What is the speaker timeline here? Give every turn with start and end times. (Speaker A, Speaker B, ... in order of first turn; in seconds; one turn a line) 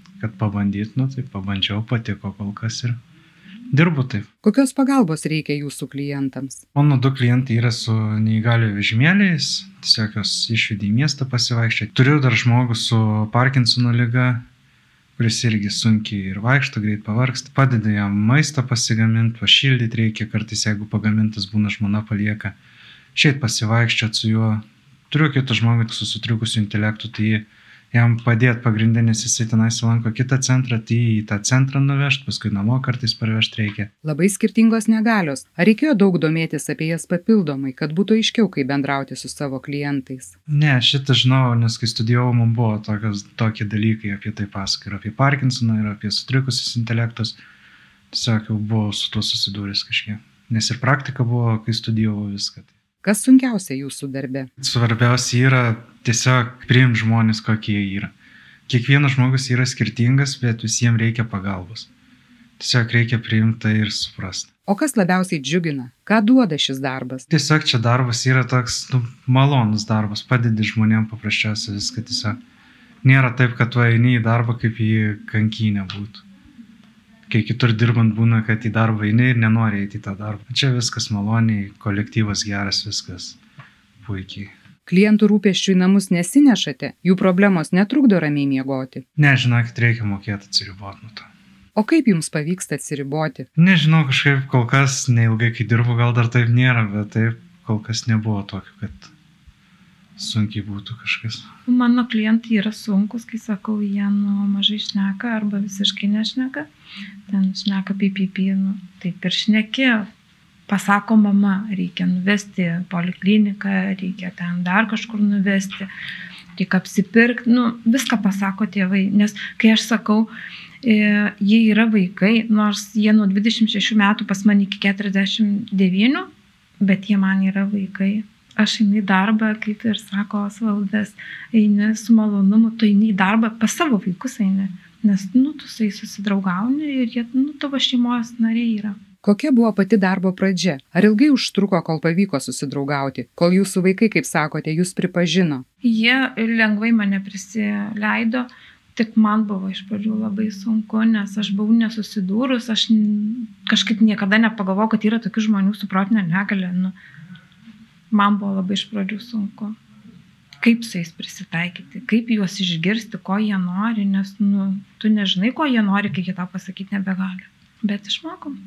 Speaker A: 0.2-3.0
Speaker A: 3.7-4.3
Speaker B: 4.4-6.6
Speaker A: 6.8-14.4
Speaker A: 15.2-22.6
Speaker A: 23.1-33.9
Speaker B: 34.0-40.4
Speaker A: 40.5-47.4
Speaker A: 48.1-52.7
Speaker B: 53.0-54.5
Speaker A: 54.6-58.1
Speaker A: 58.7-61.9
Speaker A: 62.6-64.5
Speaker B: 64.7-67.3
Speaker A: 67.3-72.4
Speaker A: 73.0-76.2
Speaker A: 77.3-83.4
Speaker A: 84.0-84.5
Speaker B: 84.9-89.0
Speaker A: 89.2-91.3
Speaker B: 91.7-93.5
Speaker A: 93.5-99.1
Speaker A: 100.2-101.5
Speaker C: 101.7-106.7
Speaker C: 107.3-110.1
Speaker C: 110.7-115.9
Speaker C: 116.5-120.3
Speaker C: 120.8-126.3
Speaker C: 126.8-139.0
Speaker B: 139.2-145.6
Speaker C: 145.8-156.9
Speaker C: 158.1-159.8
Speaker C: 160.6-168.6